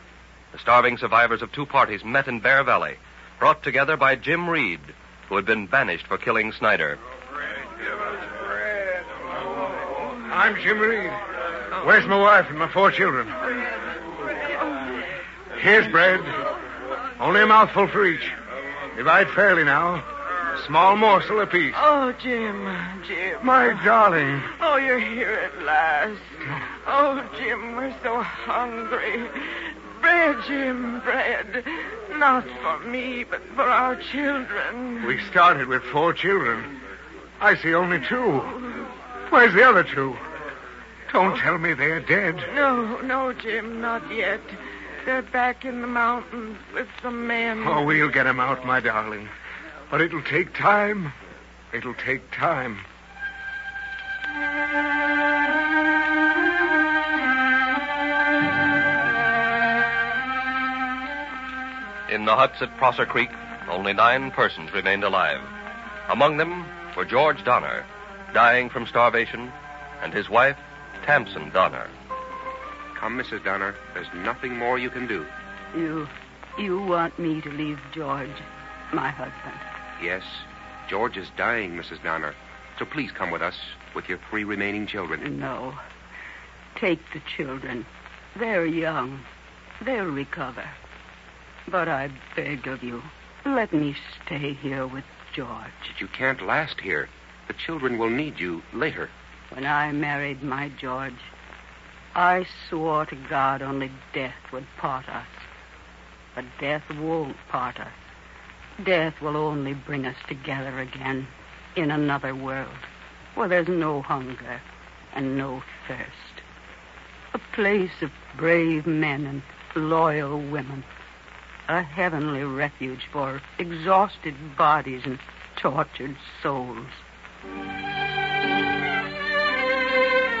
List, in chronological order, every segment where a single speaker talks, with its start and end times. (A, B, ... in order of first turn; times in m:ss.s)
0:00.5-0:07.0 A
0:10.3-0:11.1 B
0:11.8-0:13.3 B
0:15.6-0:16.3 B
0:17.2-0:18.3 B
0:18.9-0:20.0 B
0:20.6-0:21.8 B
0:21.7-0:23.8 C
0:23.4-0:24.5 B
0:24.6-0:26.2 C
0:26.8-0:29.4 C
0:30.0-0:35.2 C
0:35.0-0:36.7 B
0:37.4-0:38.6 B
0:39.3-0:40.2 B
0:41.1-0:42.5 B
0:42.5-0:48.0 C
0:47.6-0:49.3 B
0:49.9-0:51.1 B
0:51.7-0:52.8 B
1:02.1-1:05.5 A
1:06.1-1:11.9 A
1:12.9-1:15.3 D
1:15.7-1:19.6 E
1:20.0-1:25.3 D
1:25.2-1:25.8 E
1:26.8-1:29.2 E
1:29.8-1:30.8 E
1:31.7-1:35.9 E
1:35.9-1:39.1 D
1:39.5-1:41.3 E
1:42.1-1:45.4 E
1:46.4-1:47.9 E
1:48.8-1:54.6 E
1:55.1-1:56.4 E
1:57.3-2:00.8 E
2:01.7-2:07.0 E